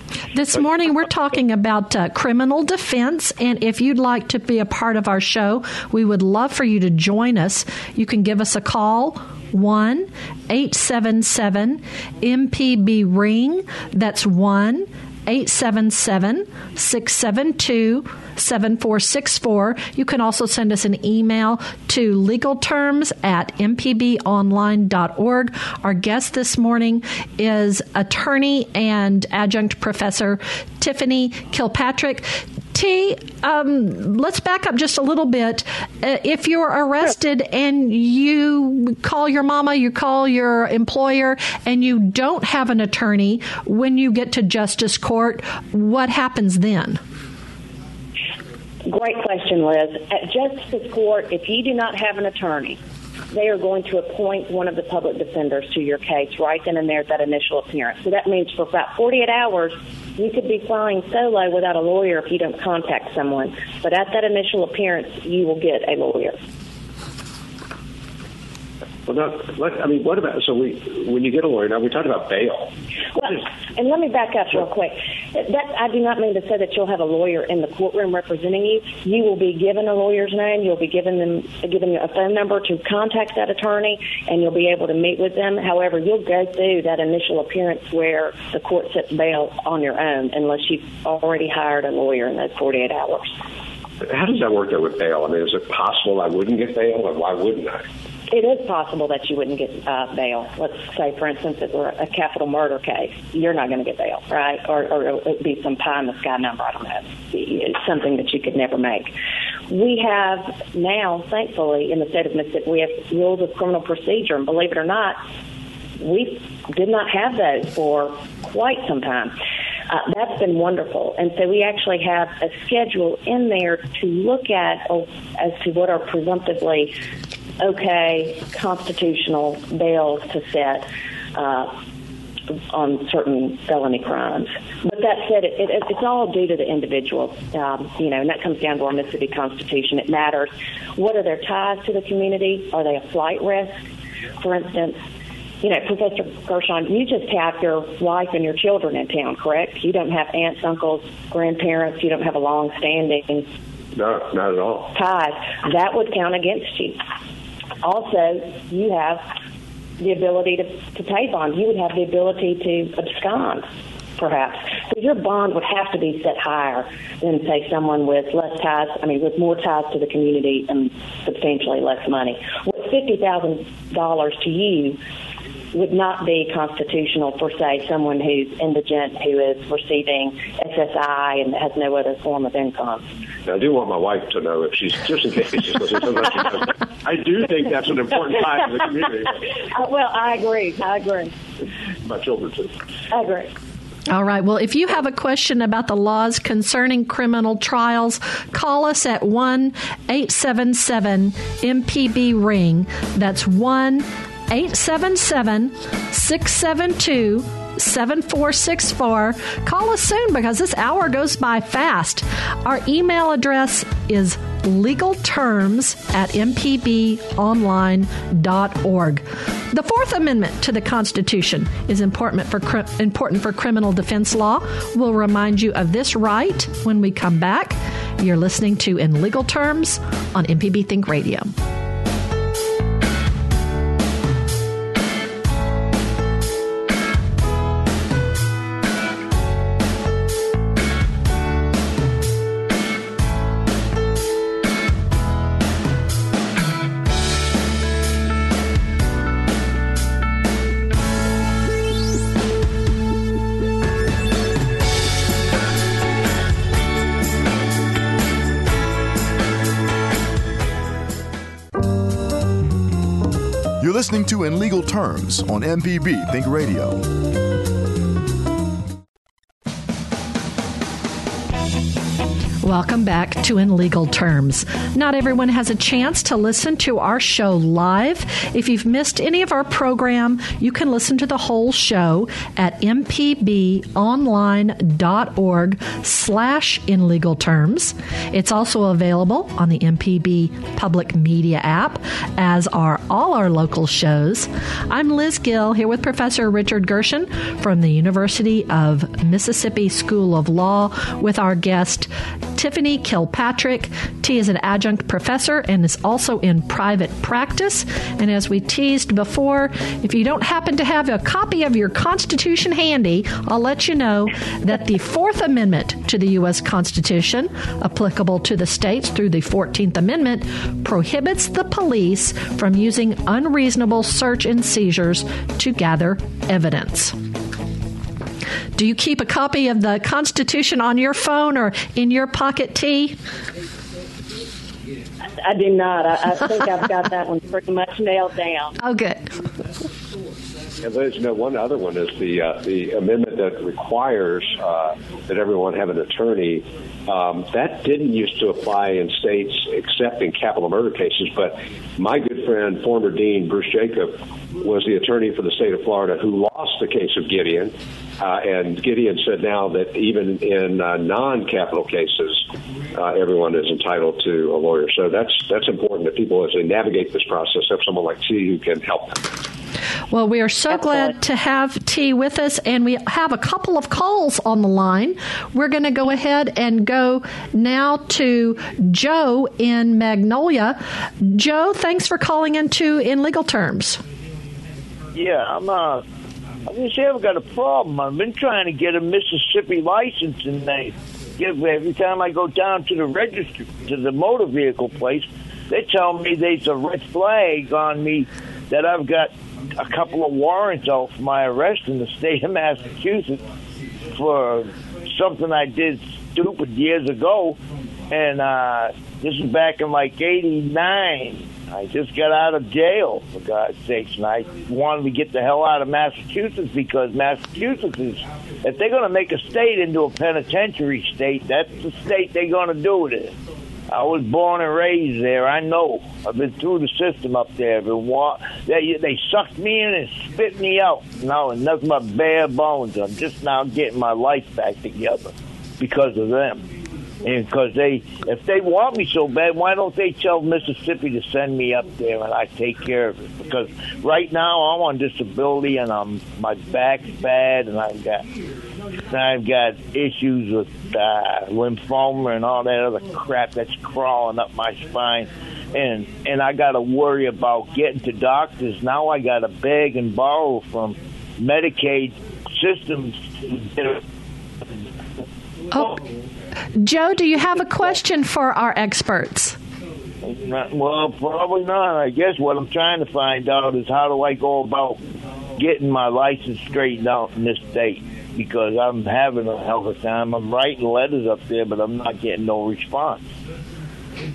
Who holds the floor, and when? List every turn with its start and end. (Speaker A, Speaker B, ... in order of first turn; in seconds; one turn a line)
Speaker A: 0.3-47.0
Speaker B: 48.9-52.8
Speaker B: 53.3-66.4
Speaker C: 69.1-72.7
Speaker B: 73.2-93.3
Speaker C: 94.0-97.8
Speaker B: 98.3-109.1
Speaker B: 109.7-115.2
Speaker B: 116.0-119.3
Speaker B: 119.9-127.0
Speaker B: 127.6-131.8
Speaker B: 132.7-143.8
Speaker B: 144.4-145.0
Speaker B: 145.6-153.5
Speaker C: 153.9-154.9
Speaker B: 154.9-157.0
Speaker B: 157.8-159.3
Speaker B: 160.0-163.7
Speaker B: 164.2-175.0
Speaker B: 175.7-183.1
Speaker C: 183.4-189.4
Speaker B: 189.7-191.3
Speaker C: 192.0-192.8
Speaker B: 193.1-193.5
Speaker A: 194.1-231.5
Speaker D: 263.8-267.1
Speaker A: 272.6-327.2
Speaker A: 328.8-333.2
Speaker B: 335.4-338.8
Speaker A: 338.8-339.3
Speaker C: 340.8-369.3
Speaker A: 370.1-384.0
Speaker E: 385.1-386.1
Speaker E: 386.7-403.4
Speaker E: 404.1-407.6
Speaker E: 408.1-423.3
Speaker E: 423.9-436.7
Speaker E: 437.2-448.3
Speaker E: 449.1-464.0
Speaker A: 465.7-466.0
Speaker A: 466.8-469.6
Speaker E: 470.2-483.3